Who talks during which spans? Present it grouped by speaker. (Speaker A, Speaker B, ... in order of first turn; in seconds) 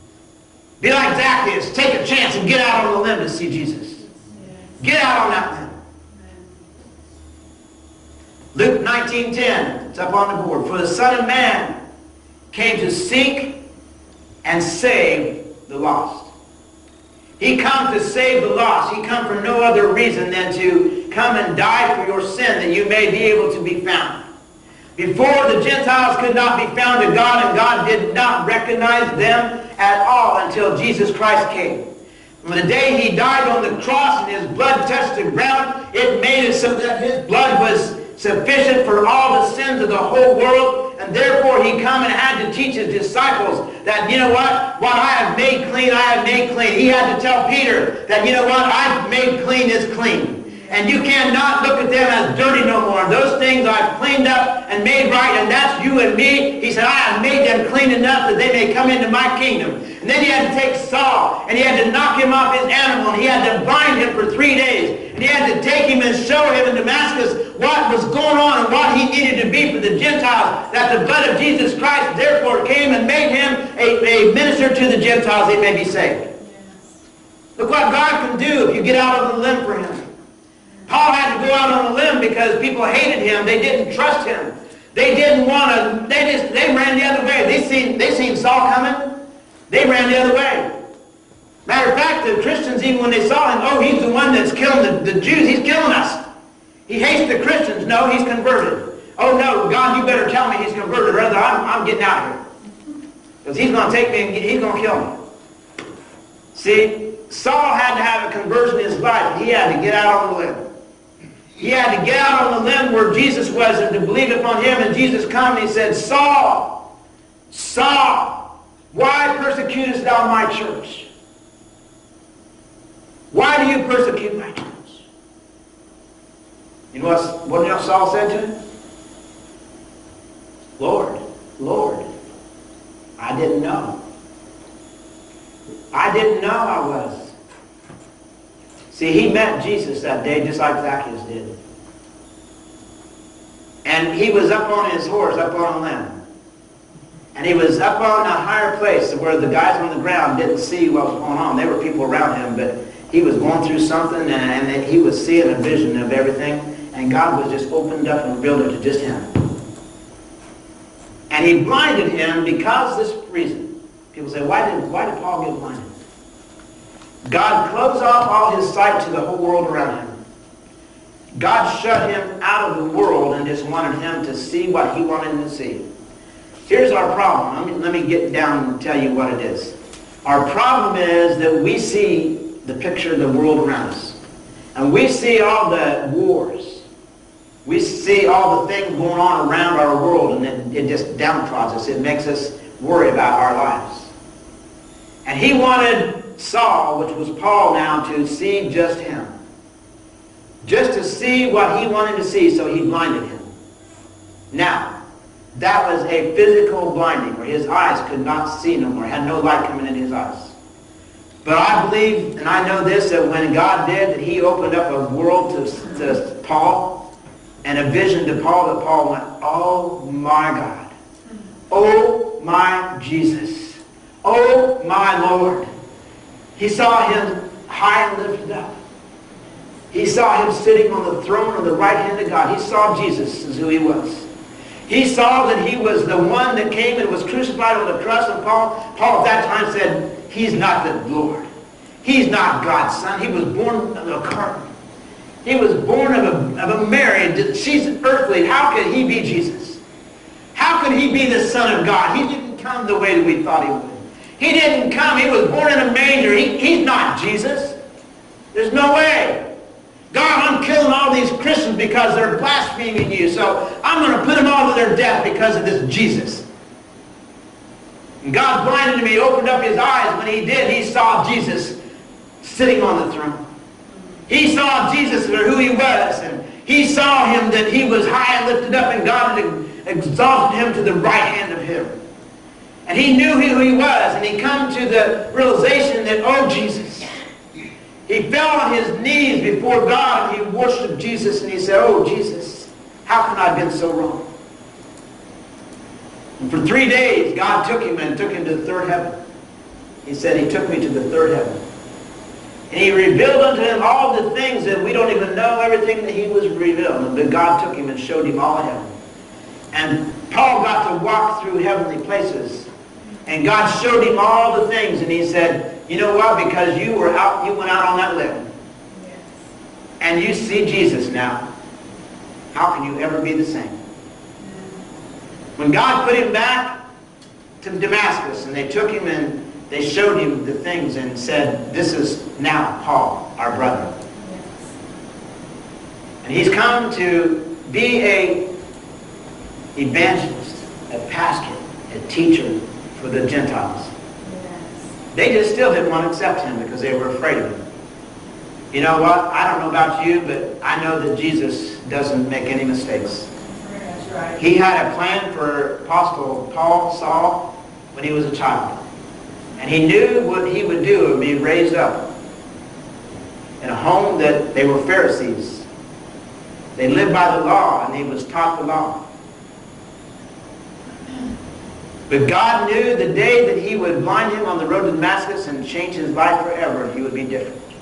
Speaker A: 0.8-4.0, 4.8-5.8, 8.5-11.7, 12.5-13.6, 14.4-16.3, 17.4-24.2, 25.0-31.8, 32.4-76.3, 77.6-80.1, 80.9-89.1, 89.7-90.7, 91.7-96.2, 96.9-102.4, 103.4-105.1, 106.5-110.6, 111.6-116.7, 117.5-118.4, 118.9-121.1, 123.3-125.0, 126.9-128.5, 130.8-132.1, 133.2-133.9, 135.9-137.3, 138.9-141.5, 143.8-146.2, 147.3-159.3, 161.3-165.9, 167.2-170.2, 171.3-175.8, 176.7-184.2, 184.8-186.8, 187.7-194.1, 195.2-199.3, 200.6-203.5, 204.5-204.9, 205.5-210.5, 211.4-217.0, 217.6-220.9, 221.7-225.7, 226.6-228.7, 229.9-234.3, 234.9-241.5, 242.0-244.7, 245.4-249.8, 250.5-257.8, 258.5-259.4, 260.1-266.4, 268.2-271.8, 272.4-273.4, 274.3-281.9, 282.9-287.1, 288.1-294.2, 296.4-299.1, 300.0-301.6, 302.7-308.9, 309.7-312.7, 313.3-318.5, 320.0-321.4, 322.5-323.8, 325.6-326.7, 327.6-333.9, 336.2-338.4, 339.8-343.9, 345.1-347.6, 348.7-353.3, 354.4-358.8, 359.6-362.1, 363.6-365.6, 366.8-369.0, 372.1-377.6
Speaker B: 4.2-4.7, 6.1-6.6, 50.5-50.8, 76.4-76.9, 318.9-319.3, 324.4-324.8, 334.2-334.6, 344.2-344.9, 353.4-354.4